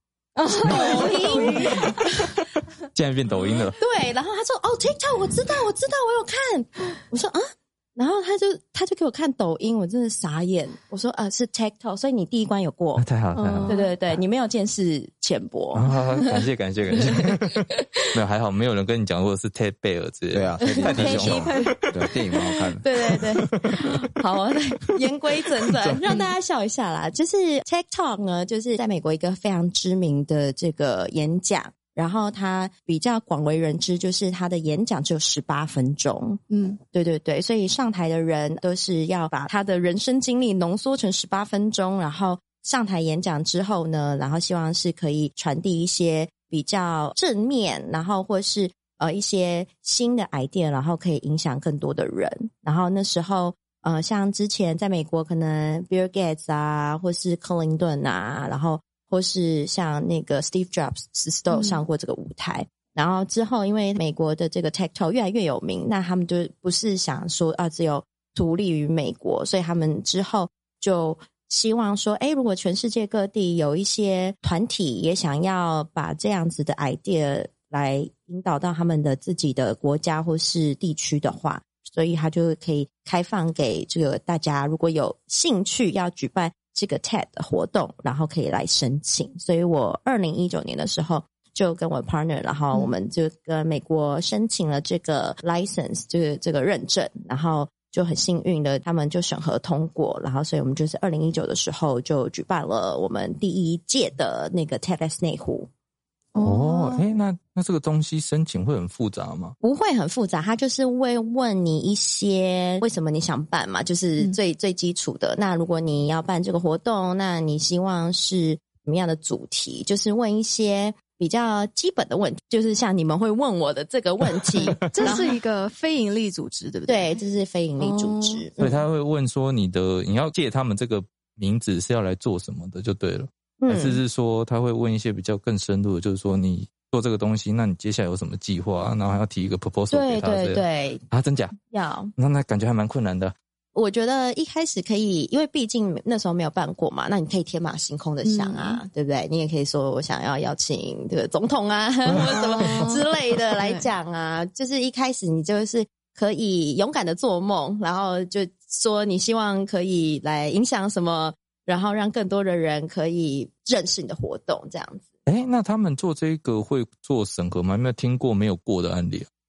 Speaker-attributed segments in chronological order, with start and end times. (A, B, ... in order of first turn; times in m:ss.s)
0:00.4-0:02.4 A
0:00.4-0:02.3 B
0:00.6-0:01.9 C
0:02.9-0:03.8 C
0:03.8-0:07.4 B
0:08.0-0:13.0 B
0:13.0-0:13.8 C
0:13.4-0:13.9 A
0:13.7-0:16.4 B
0:15.8-0:17.6 C
0:17.0-0:17.9 B
0:18.1-0:21.6 C
0:20.3-0:22.8 D
0:20.6-0:21.7 B
0:22.8-0:36.4 B
0:36.5-0:36.8 A
0:36.9-1:45.7 B
1:01.5-1:01.8 A
1:46.4-1:47.0 A
1:46.4-1:49.6 C
1:49.6-2:05.3 B
2:04.9-2:07.2 A
2:06.9-2:08.6 B
2:07.8-2:08.8 A
2:08.6-2:21.6 C
2:13.6-2:14.0 B
2:19.9-2:21.0 B
2:21.7-2:22.1 B
2:22.2-2:23.3 C
2:23.8-2:45.0 B
2:28.2-2:28.8 A
2:32.1-2:32.4 C
2:32.1-2:33.0 A
2:33.6-2:33.8 A
2:45.3-2:49.3 C